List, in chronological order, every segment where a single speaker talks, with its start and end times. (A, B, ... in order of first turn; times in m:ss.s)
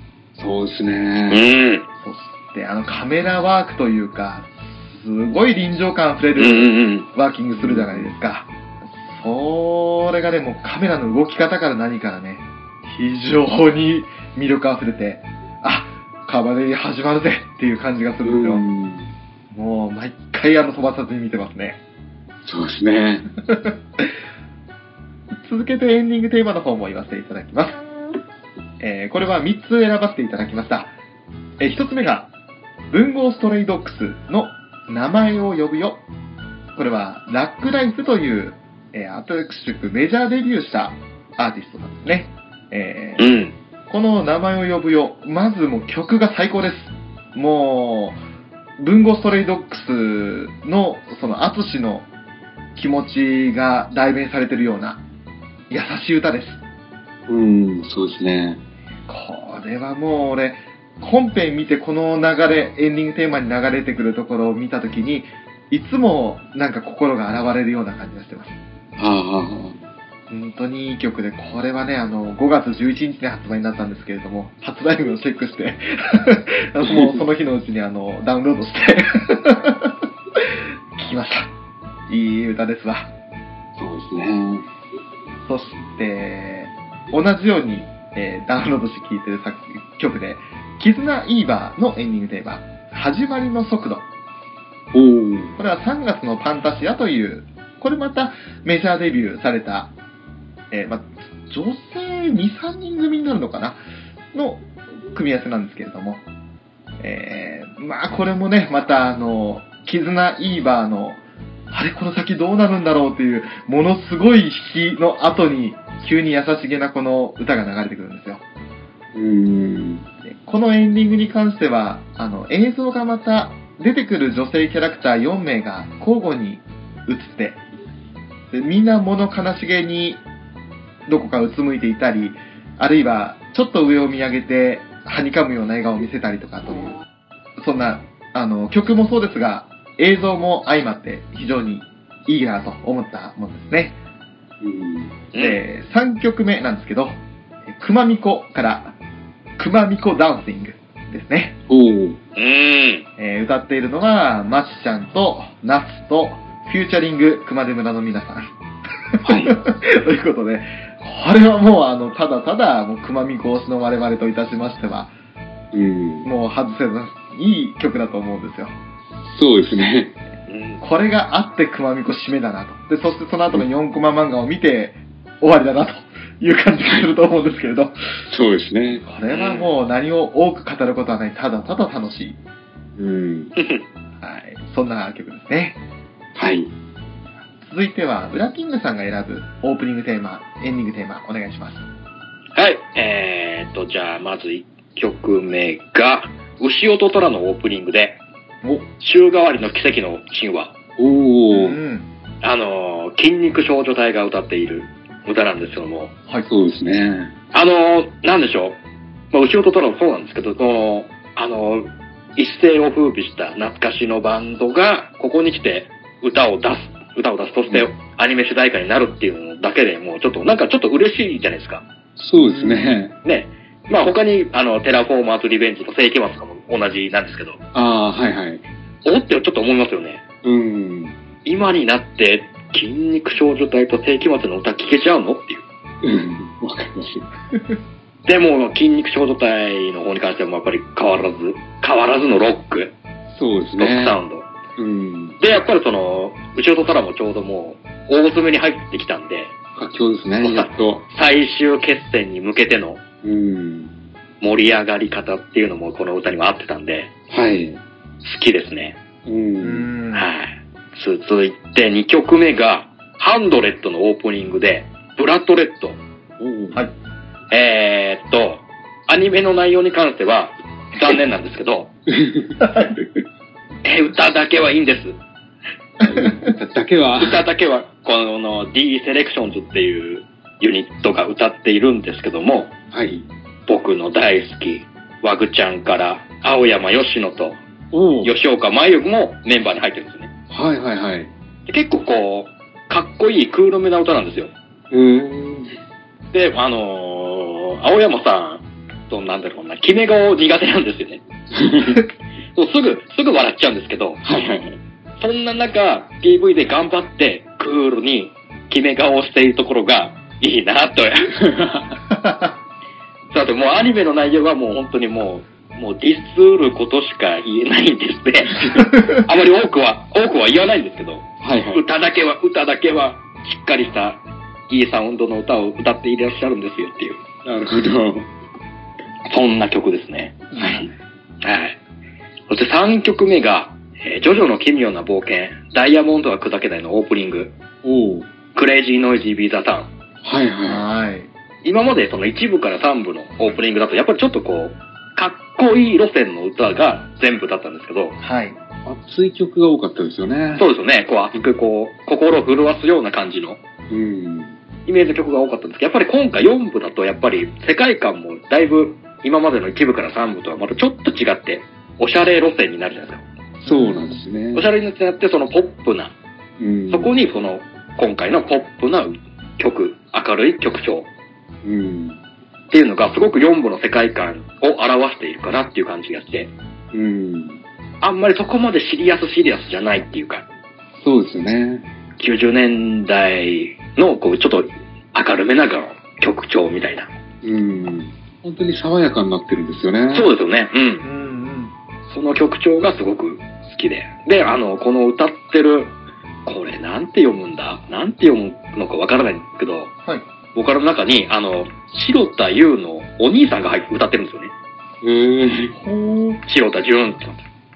0:00.4-0:01.4 A
0:01.3-0:01.8 B
0:02.0-0:18.6 C
0:06.4-0:07.1 B
0:07.6-0:08.1 A
0:18.2-0:19.1 A
0:19.5-0:21.8 C
0:22.4-0:23.3 A
0:23.5-0:24.1 C
0:25.4-0:27.8 C
0:28.8-0:30.9 C
0:31.6-0:32.3 C
0:32.9-0:36.0 C
0:36.7-0:43.3 C
0:43.2-0:43.5 B
0:43.9-0:48.2 C
0:48.8-0:52.1 C
0:52.8-0:55.0 C
0:55.7-0:56.6 C
0:57.3-0:58.6 A
0:59.1-1:08.6 C
1:09.0-1:09.8 A
1:10.3-1:21.5 C
1:16.8-1:17.2 A
1:22.1-1:23.1 C
1:23.8-1:24.7 A
1:25.4-1:34.0 C
1:34.9-1:35.6 A
1:35.6-1:39.9 C
1:40.7-1:43.8 C
1:44.3-1:46.2 C
1:47.0-1:58.4 C
1:59.1-2:00.0 A
2:00.2-2:07.6 C
2:08.5-2:10.2 C
2:11.1-2:17.0 C
2:17.6-2:24.0 C
2:24.6-2:25.2 A
2:25.3-2:25.6 B
2:25.4-2:28.9 C
2:29.6-2:31.6 C
2:31.7-2:32.2 A
2:32.4-2:33.0 B
2:33.2-2:38.5 C
2:39.1-2:45.1 C
2:39.2-2:39.6 A
2:45.7-2:46.3 A
2:46.2-2:48.7 C
2:49.3-2:50.1 A
2:50.5-2:50.8 B
2:50.8-2:58.0 C
2:58.3-2:59.0 A
2:59.0-3:02.4 C
2:59.3-2:59.7 B
3:03.0-3:03.5 A
3:03.6-3:03.8 B
3:04.2-3:05.8 C
3:06.3-3:06.7 A
3:07.6-3:11.9 C
3:12.5-3:18.2 B
3:19.0-3:20.7 B
3:21.0-3:21.8 A
3:21.5-3:22.1 C
3:22.4-3:26.1 B
3:26.5-3:27.3 A
3:27.5-3:28.8 B
3:29.3-3:41.8 B
3:42.2-3:43.1 A
3:42.3-3:43.1 C
3:43.2-3:47.6 B
3:47.7-3:48.6 A
3:49.0-3:50.2 B
3:50.4-3:51.2 A
3:51.4-3:55.6 B
3:56.0-3:57.3 A
3:58.2-4:02.9 B
4:03.3-4:04.2 A
4:03.8-4:04.5 B
4:04.8-4:05.4 A
4:05.4-4:09.5 B
4:09.8-4:11.0 A
4:10.4-4:13.0 B
4:13.2-4:13.9 A
4:14.4-4:17.1 B
4:17.3-4:17.8 A
4:18.2-4:19.0 B
4:19.2-4:19.9 A
4:19.6-4:20.3 C
4:20.1-4:26.0 B
4:26.4-4:26.8 A
4:27.5-4:31.9 B
4:32.2-4:32.6 A
4:32.6-4:33.0 C
4:33.8-4:35.2 B
4:36.0-4:37.4 A
4:36.0-4:36.5 C
4:37.2-4:42.7 B
4:42.9-4:43.3 A
4:43.7-4:47.6 B
4:47.9-4:48.3 A
4:48.2-4:50.3 B
4:50.5-4:51.3 A
4:51.7-4:54.5 B
4:54.9-4:55.7 A
4:56.3-5:01.2 B
5:01.5-5:02.0 A
5:02.5-5:04.2 B
5:04.2-5:04.8 A
5:05.2-5:11.3 B
5:11.4-5:12.0 A
5:12.1-5:12.5 C
5:13.3-5:27.2 B
5:18.6-5:18.9 A
5:21.4-5:21.8 A
5:27.4-5:28.3 A
5:29.3-5:30.5 B
5:30.5-5:30.9 C
5:30.6-5:30.9 A
5:31.4-5:31.8 B
5:32.5-5:37.5 B
5:37.8-5:38.3 A
5:38.5-5:39.9 B
5:40.2-5:40.8 A
5:40.6-5:41.3 C
5:41.6-5:48.2 B
5:48.2-5:48.6 C
5:48.8-5:50.7 A
5:50.6-5:53.6 B
5:53.9-5:54.6 A
5:54.9-6:03.2 B
6:03.6-6:04.2 C
6:03.6-6:04.7 A
6:04.5-6:06.1 B
6:06.6-6:07.2 A
6:06.9-6:11.1 B
6:11.6-6:12.2 A
6:12.7-6:16.5 B
6:16.9-6:17.6 A
6:18.0-6:20.4 B
6:21.0-6:21.9 A
6:22.2-6:27.1 B
6:27.4-6:30.3 A
6:30.1-6:31.0 B
6:31.0-6:31.7 C
6:32.1-6:35.9 B
6:36.4-6:39.9 B
6:40.5-6:44.5 B
6:45.0-6:45.7 A
6:45.8-6:46.4 C
6:46.4-6:47.4 B